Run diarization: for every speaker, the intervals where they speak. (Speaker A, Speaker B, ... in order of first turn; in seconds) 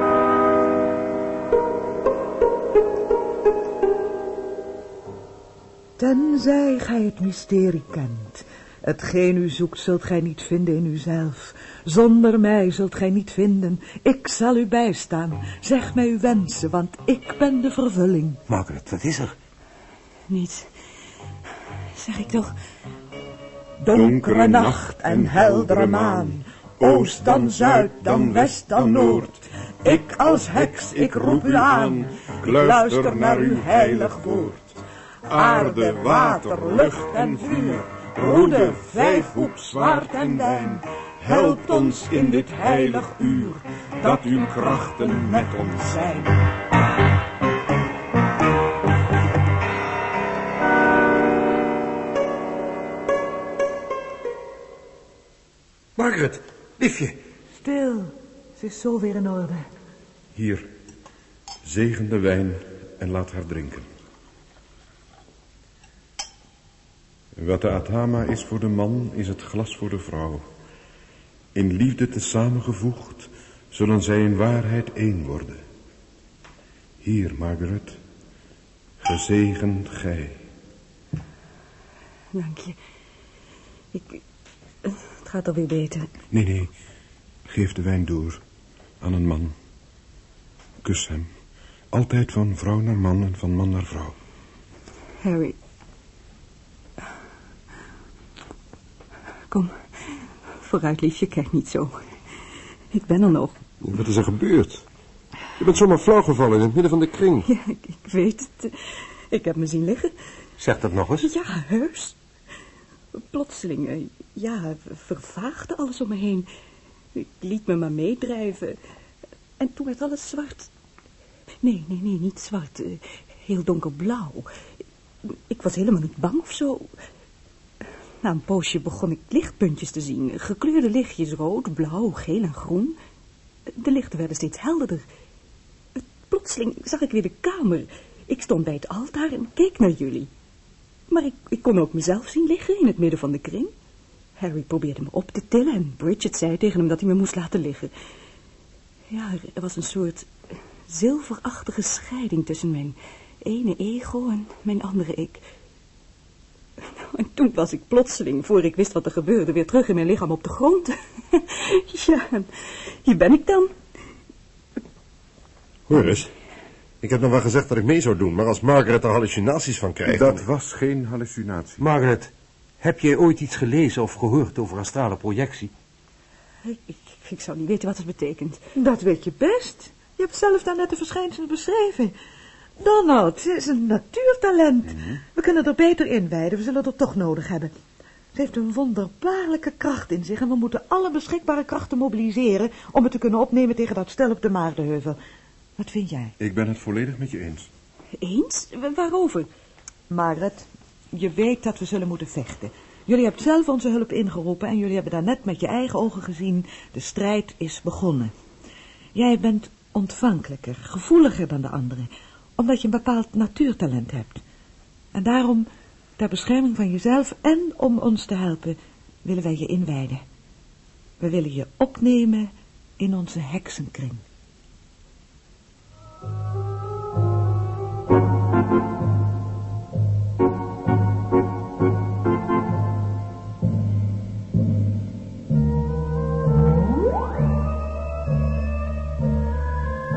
Speaker A: 6.0-18.4, 23.8-34.6, 35.3-46.3, 57.6-59.6, 178.8-182.1, 182.8-187.7, 188.3-195.2, 195.8-196.3, 200.1-208.3, 209.2-214.4, 215.1-220.2, 221.2-224.2
Speaker B: 18.5-19.4, 56.0-57.1, 110.6-111.3, 171.8-175.7
Speaker C: 20.3-20.7, 22.0-22.5, 82.4-82.7, 85.2-86.1, 95.2-95.5, 100.7-101.9, 103.0-103.5, 107.5-108.6, 109.3-110.1, 111.2-112.1, 113.3-116.4, 117.4-118.7, 119.6-120.6, 121.6-122.9, 123.5-124.4, 125.5-126.8, 128.3-132.9, 133.8-135.0, 136.3-140.2, 141.1-143.7, 144.4-147.9, 149.2-150.2, 150.9-152.9, 153.5-155.4, 157.2-160.8, 163.1-163.6, 176.7-178.5, 198.3-199.4
Speaker D: 23.9-46.3, 60.4-60.7, 61.6-63.9, 67.4-70.4, 71.5-75.6, 77.0-78.0, 79.0-80.4, 86.3-86.7, 87.5-88.4, 89.0-89.5, 90.8-91.3, 91.9-94.2, 170.1-171.8, 184.9-185.2, 196.4-197.7
Speaker E: 103.8-104.8, 105.6-107.5, 165.9-166.3, 167.0-170.4